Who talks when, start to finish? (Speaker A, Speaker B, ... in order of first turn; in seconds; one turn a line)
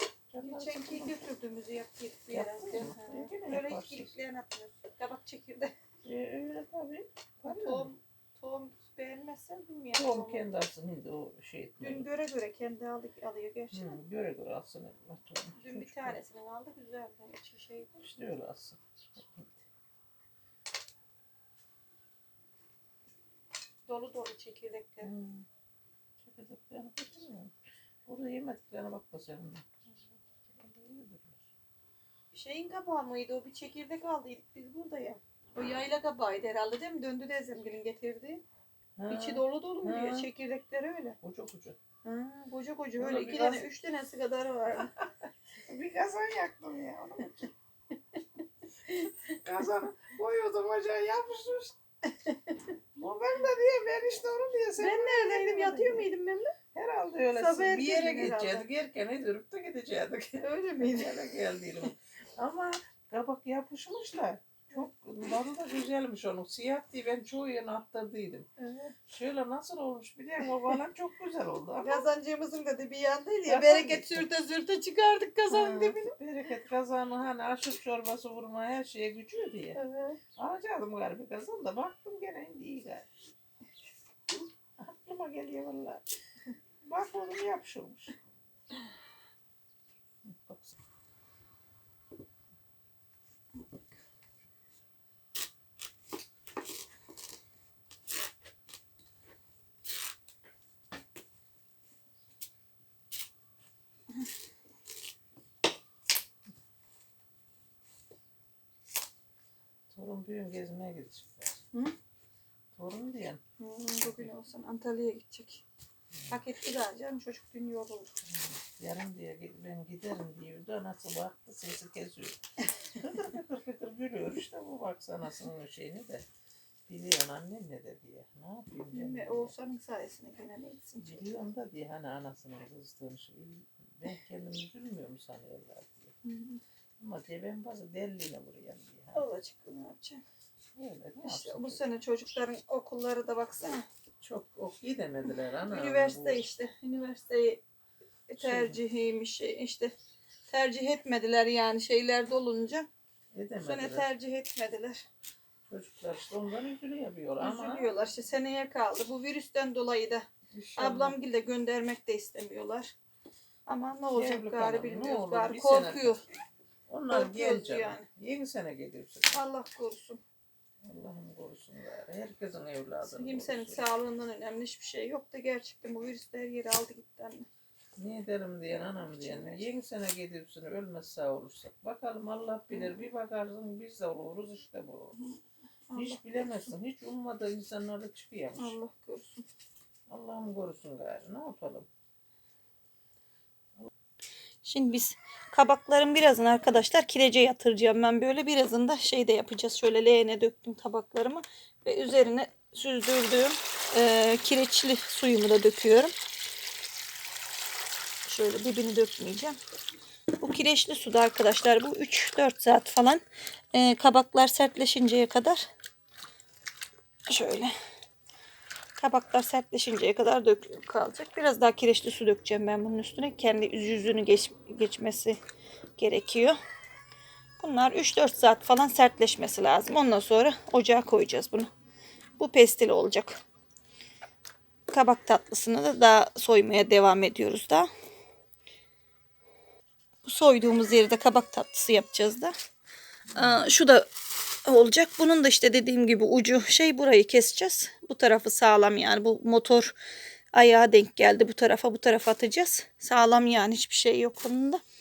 Speaker A: 0.3-1.2
Speaker B: 0.4-5.8
Speaker A: 2.3-4.2
Speaker A: 6.0-7.9
Speaker B: 7.5-10.5
Speaker A: 9.9-12.1
Speaker B: 11.8-14.0
Speaker A: 13.7-16.2
Speaker B: 15.6-18.0
Speaker A: 18.0-19.6
Speaker B: 23.9-25.1
Speaker A: 25.0-25.5
Speaker A: 26.2-27.5
Speaker A: 28.1-29.7
Speaker A: 30.5-31.5
Speaker B: 32.3-38.4
Speaker A: 39.0-40.3
Speaker B: 39.1-41.2
Speaker A: 41.2-41.8
Speaker B: 42.0-44.9
Speaker A: 43.0-43.7
Speaker A: 45.6-47.5
Speaker A: 48.9-51.8
Speaker A: 53.0-56.1
Speaker B: 54.8-56.5
Speaker A: 56.7-68.5
Speaker B: 57.4-58.7
Speaker B: 60.4-61.3
Speaker B: 68.6-69.0
Speaker A: 69.0-72.1
Speaker B: 71.8-76.1
Speaker A: 73.5-74.3
Speaker A: 75.5-79.8
Speaker B: 79.8-80.2
Speaker A: 80.4-83.1
Speaker A: 84.8-86.0
Speaker A: 86.8-88.2
Speaker A: 90.2-90.8
Speaker A: 109.9-111.6
Speaker A: 112.7-113.4
Speaker B: 113.6-115.7
Speaker A: 114.0-114.3
Speaker B: 116.3-118.2
Speaker A: 118.3-122.4
Speaker A: 123.0-126.3
Speaker A: 126.9-129.5
Speaker B: 128.9-131.2
Speaker A: 131.0-136.1
Speaker B: 136.2-136.6
Speaker A: 137.0-139.2
Speaker B: 139.1-140.2
Speaker A: 140.8-141.8
Speaker B: 141.2-143.9
Speaker A: 144.2-146.5
Speaker B: 145.6-147.6
Speaker B: 148.3-149.9
Speaker A: 148.4-148.8
Speaker B: 150.5-152.9
Speaker A: 153.3-154.1
Speaker B: 153.6-155.1
Speaker A: 155.7-157.9
Speaker B: 157.4-160.2
Speaker A: 160.5-161.2
Speaker B: 160.8-162.9
Speaker B: 163.7-166.2
Speaker A: 164.1-166.2
Speaker A: 166.9-169.4
Speaker B: 167.1-168.1
Speaker B: 169.3-170.2
Speaker A: 170.8-173.8
Speaker B: 173.0-177.5
Speaker A: 178.0-185.2
Speaker B: 178.9-179.6
Speaker B: 182.7-183.0
Speaker B: 185.1-186.7
Speaker A: 185.9-188.8
Speaker B: 188.6-189.5
Speaker A: 190.1-191.9
Speaker B: 194.6-206.1
Speaker B: 208.3-209.6
Speaker B: 210.4-215.7
Speaker B: 217.3-217.7
Speaker B: 219.0-225.4
Speaker B: 226.0-226.6
Speaker B: 227.6-231.7
Speaker B: 232.4-233.4
Speaker B: 234.9-237.9
Speaker B: 240.2-242.5
Speaker A: 243.3-243.6
Speaker B: 243.3-244.1
Speaker B: 244.7-250.0
Speaker B: 250.5-254.8